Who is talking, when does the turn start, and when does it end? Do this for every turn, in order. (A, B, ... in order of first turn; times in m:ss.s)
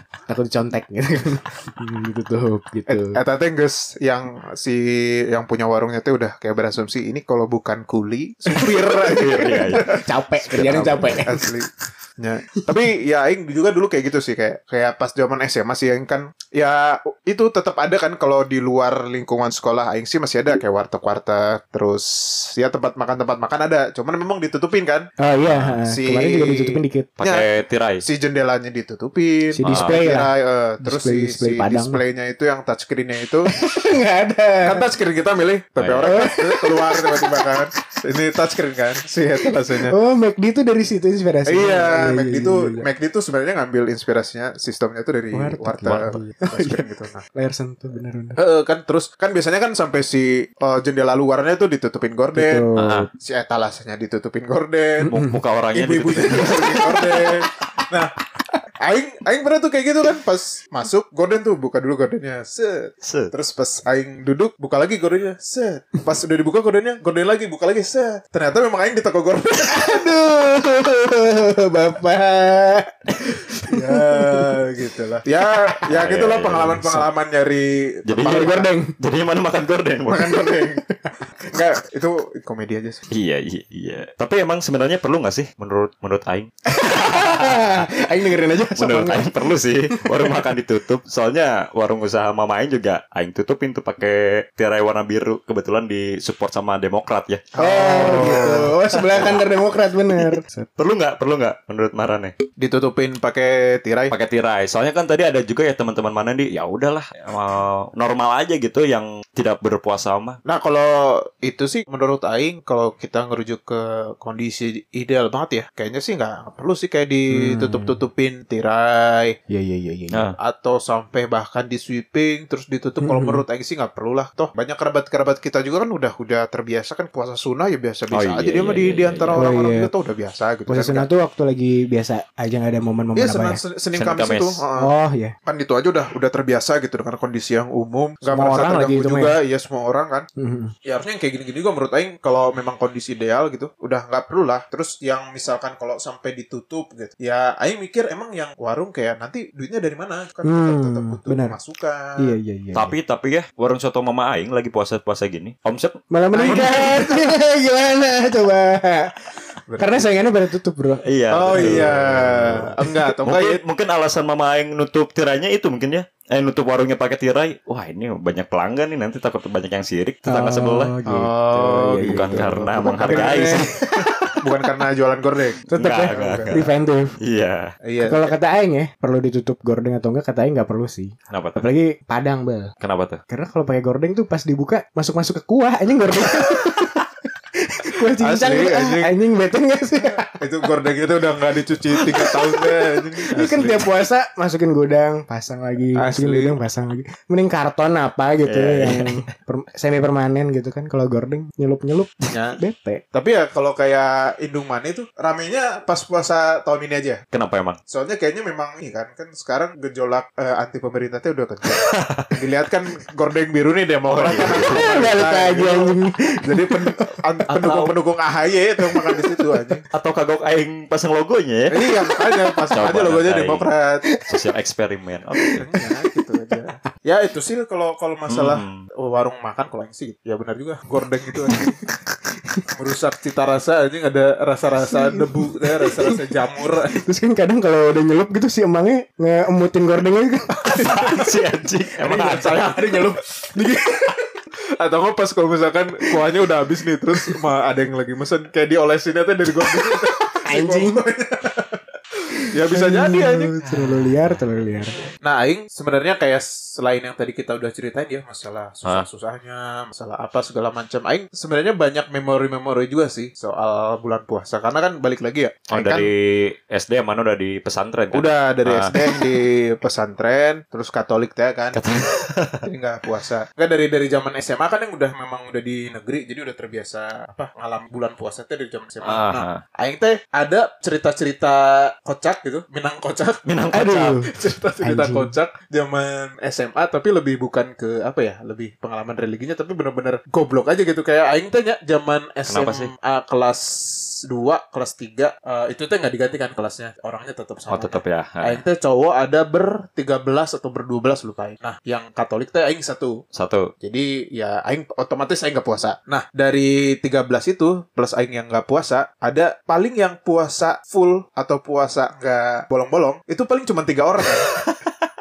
0:00.3-0:03.2 A
0:02.9-0:25.1 B
0:09.1-0:09.9 C
0:09.7-0:11.5 A
0:10.5-0:11.3 C
0:25.2-0:27.1 A
0:25.4-0:25.8 C
0:25.8-0:27.5 B
0:27.2-0:28.0 C
0:28.0-0:33.5 B
0:29.5-0:30.3 A
0:29.6-0:30.0 C
0:30.8-0:32.0 A
0:33.5-0:34.8 A
0:34.6-0:40.0 B
0:35.8-0:36.3 C
0:36.1-0:37.5 A
0:39.4-0:42.8 A
0:41.4-0:47.2 B
0:45.3-0:48.4 A
0:48.4-0:55.1 B
0:52.3-0:53.1 A
0:52.8-0:53.1 C
0:55.0-0:55.4 A
0:55.1-0:56.7 C
0:55.7-0:58.1 B
0:56.3-0:57.8 A
0:58.8-1:10.1 B
1:03.0-1:03.3 C
1:09.7-1:14.6 A
1:13.7-1:18.7 B
1:15.9-1:17.0 C
1:18.1-1:20.4 C
1:18.2-1:19.0 A
1:20.1-1:20.8 B
1:20.8-1:21.8 A
1:21.5-1:23.0 B
1:23.1-1:27.9 C
1:26.7-1:29.4 A
1:28.7-1:39.4 C
1:29.9-1:30.4 A
1:37.6-1:39.4 B
1:37.6-1:40.5 A
1:40.2-1:42.4 C
1:42.6-1:44.1 B
1:44.1-1:50.4 C
1:50.4-1:59.4 B
1:57.3-1:58.0 A
1:59.5-2:00.2 A
2:00.4-2:11.1 B
2:03.0-2:03.4 A
2:08.1-2:09.5 C
2:09.4-2:09.9 A
2:10.7-2:13.6 A
2:13.2-2:14.9 B
2:13.9-2:14.6 C
2:14.8-2:15.3 A
2:15.4-2:20.3 B
2:18.3-2:19.4 A
2:20.4-2:20.7 A
2:20.8-2:32.4 B
2:30.4-2:31.6 A
2:32.2-2:33.0 A
2:32.7-2:37.0 C
2:36.1-2:42.0 A
2:36.3-2:37.1 B
2:39.7-2:40.0 B
2:41.0-2:50.9 C
2:41.3-2:43.6 B
2:50.3-2:54.0 A
2:51.0-2:53.7 B
2:52.0-2:54.3 C
2:54.3-2:56.6 B
2:55.7-2:57.2 A
2:55.8-2:57.7 C
2:57.8-2:58.3 B
2:58.0-3:02.7 A
3:01.3-3:01.6 C
3:02.8-3:03.2 C
3:03.3-3:07.0 A
3:07.6-3:10.4 A
3:08.2-3:09.1 B
3:10.3-3:13.9 B
3:12.0-3:12.7 A
3:13.3-3:23.0 A
3:15.9-3:16.6 B
3:18.4-3:19.2 C
3:22.3-3:22.6 B
3:23.1-3:27.2 B
3:27.3-3:27.8 C
3:27.9-3:39.8 B
3:31.7-3:32.3 C
3:34.1-3:35.2 C
3:34.4-3:37.2 A
3:37.5-3:37.9 C
3:38.9-3:39.4 A
3:39.9-3:41.7 C
3:41.7-3:44.0 B
3:42.1-3:42.7 A
3:42.7-3:43.7 C
3:44.3-3:45.6 C
3:45.4-3:46.5 A
3:45.6-3:51.8 B
3:48.3-3:48.8 C
3:51.4-3:51.9 A
3:52.7-3:57.0 B
3:54.9-3:56.2 A
3:56.9-4:00.5 A
4:00.6-4:01.4 B
4:00.6-4:02.8 C
4:02.0-4:04.2 B
4:04.8-4:11.8 B
4:10.5-4:11.0 A
4:12.4-4:15.0 A
4:12.5-4:13.9 B
4:15.2-4:26.1 B
4:25.7-4:29.0 C
4:28.1-4:31.8 B
4:31.7-4:32.6 C
4:32.6-4:43.4 B
4:39.0-4:39.6 C
4:43.4-4:44.2 C
4:43.7-4:45.3 A
4:44.3-5:03.2 B
4:52.5-4:52.9 C
4:57.7-4:58.6 C
5:03.3-5:03.7 C
5:03.8-5:14.5 B
5:14.4-5:14.9 C